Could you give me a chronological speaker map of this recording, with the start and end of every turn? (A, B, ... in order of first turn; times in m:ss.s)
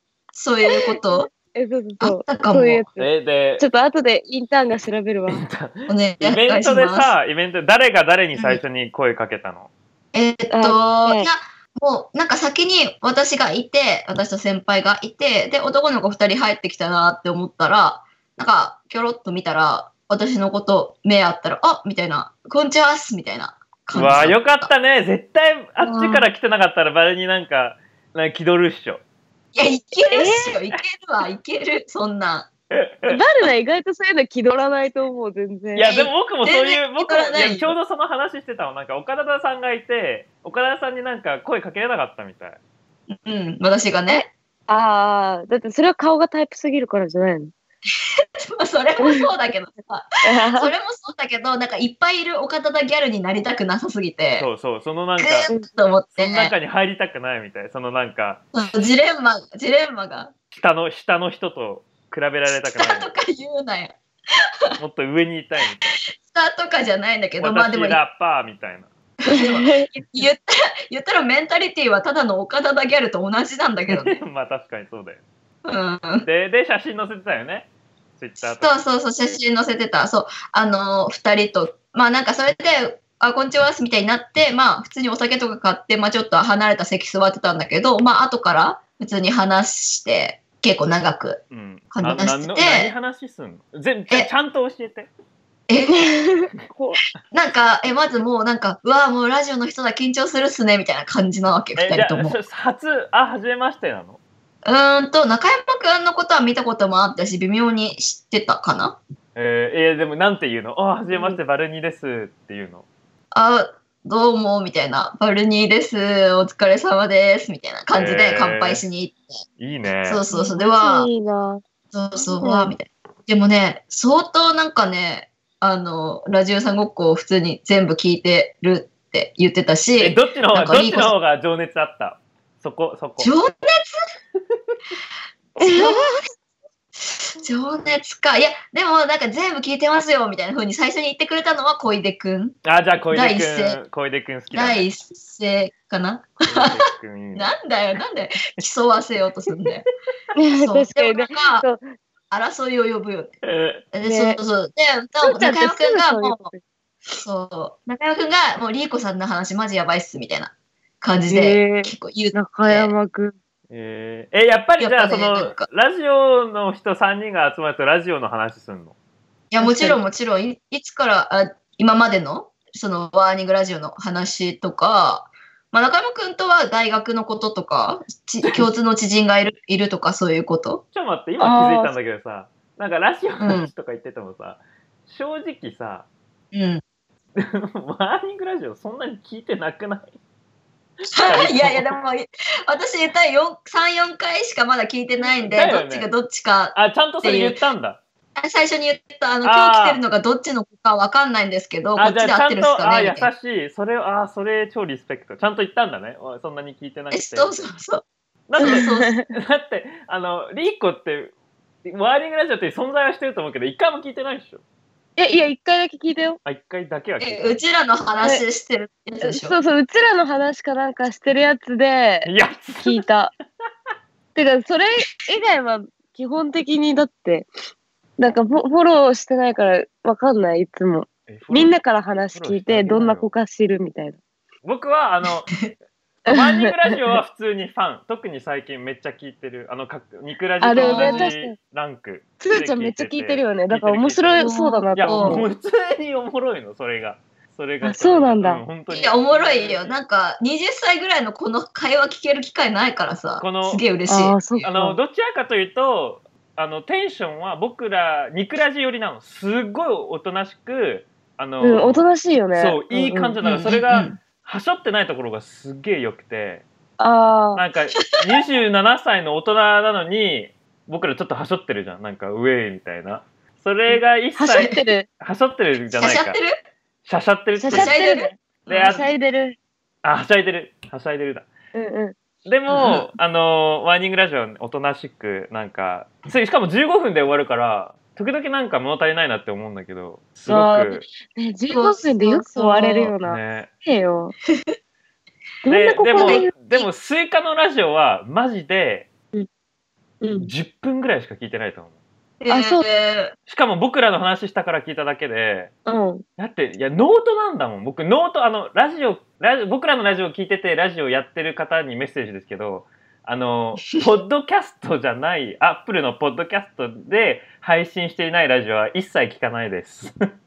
0:00.3-0:01.3 A
0:00.7-0:05.5 B
0:02.0-0:02.8 A
0:03.0-0:03.6 C
0:05.3-0:09.7 C
0:05.9-0:07.1 A
0:08.4-0:08.6 A
0:10.1-0:24.7 A
0:10.5-0:11.3 B
0:23.9-0:29.0 C
0:25.8-0:26.3 A
0:29.6-0:32.5 A
0:30.1-0:30.6 B
0:32.7-0:33.2 C
0:33.1-0:35.9 B
0:35.8-0:42.6 C
0:35.9-0:37.8 A
0:43.1-0:44.3 A
0:44.1-0:47.5 B
0:48.4-0:54.5 A
0:49.0-0:49.3 B
0:50.2-0:50.7 B
0:54.4-0:55.5 C
0:55.2-0:56.5 A
0:56.2-0:58.4 C
0:58.5-1:00.3 A
1:00.5-1:03.1 C
1:02.6-1:04.0 A
1:04.8-1:05.8 C
1:06.3-1:08.0 A
1:07.4-1:08.9 C
1:09.2-1:14.1 A
1:09.3-1:09.9 B
1:13.9-1:15.2 C
1:15.6-1:16.3 A
1:16.2-1:18.8 C
1:18.4-1:31.4 A
1:31.5-1:35.1 C
1:31.9-1:32.9 A
1:35.7-1:36.1 A
1:35.9-1:37.0 B
1:37.3-1:42.4 A
1:41.8-1:44.2 C
1:44.6-1:49.0 A
1:49.4-1:52.8 C
1:51.1-1:51.4 B
1:53.3-1:59.4 A
1:57.9-1:58.8 C
1:59.6-2:00.2 C
2:00.1-2:01.1 A
2:00.3-2:01.6 B
2:01.9-2:11.1 A
2:02.2-2:02.7 B
2:10.0-2:13.3 C
2:13.2-2:14.0 A
2:15.6-2:16.1 B
2:15.6-2:16.3 A
2:17.0-2:22.6 A
2:22.6-2:24.9 C
2:23.1-2:23.8 A
2:24.5-2:26.7 A
2:26.5-2:27.5 C
2:27.4-2:29.9 A
2:30.3-2:31.8 B
2:30.6-2:31.6 A
2:32.3-2:33.4 A
2:33.4-2:33.8 C
2:33.9-2:36.5 A
2:34.0-2:34.4 B
2:35.2-2:36.6 B
2:37.2-2:42.9 A
2:41.3-2:43.4 B
2:43.7-2:48.9 C
2:44.8-2:45.6 A
2:49.5-3:00.8 A
2:49.6-2:50.0 B
2:58.4-2:58.7 C
3:00.9-3:06.1 C
3:01.4-3:01.9 B
3:03.4-3:03.7 A
3:06.5-3:06.8 A
3:07.4-3:10.1 C
3:11.1-3:11.9 C
3:11.2-3:17.6 A
3:15.5-3:16.1 C
3:16.8-3:18.0 C
3:18.4-3:23.3 A
3:19.4-3:20.0 C
3:22.0-3:27.6 C
3:27.1-3:28.0 A
3:28.5-3:31.3 C
3:28.6-3:29.1 A
3:28.6-3:29.3 B
3:31.8-3:34.6 C
3:35.2-3:36.4 B
3:36.4-3:37.6 C
3:37.2-3:39.6 A
3:39.2-3:43.3 B
3:42.3-3:43.0 C
3:44.4-3:47.5 B
3:48.2-3:54.2 B
3:51.3-3:51.8 C
3:52.3-3:53.3 C
3:54.6-3:55.5 C
3:56.2-4:10.0 C
3:56.3-3:57.2 B
4:00.6-4:01.6 B
4:00.8-4:01.3 A
4:02.4-4:05.5 B
4:04.4-4:05.4 A
4:07.8-4:08.6 B
4:08.9-4:14.6 A
4:13.4-4:13.8 C
4:14.1-4:15.0 B
4:14.6-4:26.6 C
4:21.6-4:23.4 B
4:23.4-4:24.2 A
4:27.0-4:27.6 B
4:27.6-4:36.4 C
4:33.9-4:35.1 B
4:35.9-4:36.6 A
4:37.0-4:38.0 C
4:37.6-4:39.6 B
4:37.7-4:39.0 A
4:38.7-4:39.0 C
4:40.0-4:41.5 C
4:41.7-4:42.2 B
4:42.4-4:51.0 C
4:42.7-4:43.0 A
4:50.5-4:54.3 B
4:51.7-4:53.1 A
4:53.0-4:53.7 C
4:55.6-4:56.5 B
4:55.7-4:59.1 C
4:56.1-4:56.9 A
5:00.2-5:00.5 B
5:00.4-5:01.9 C
5:02.4-5:03.3 A
5:02.5-5:02.8 B
5:03.5-5:05.7 C
5:05.9-5:06.2 B
5:06.4-5:20.1 C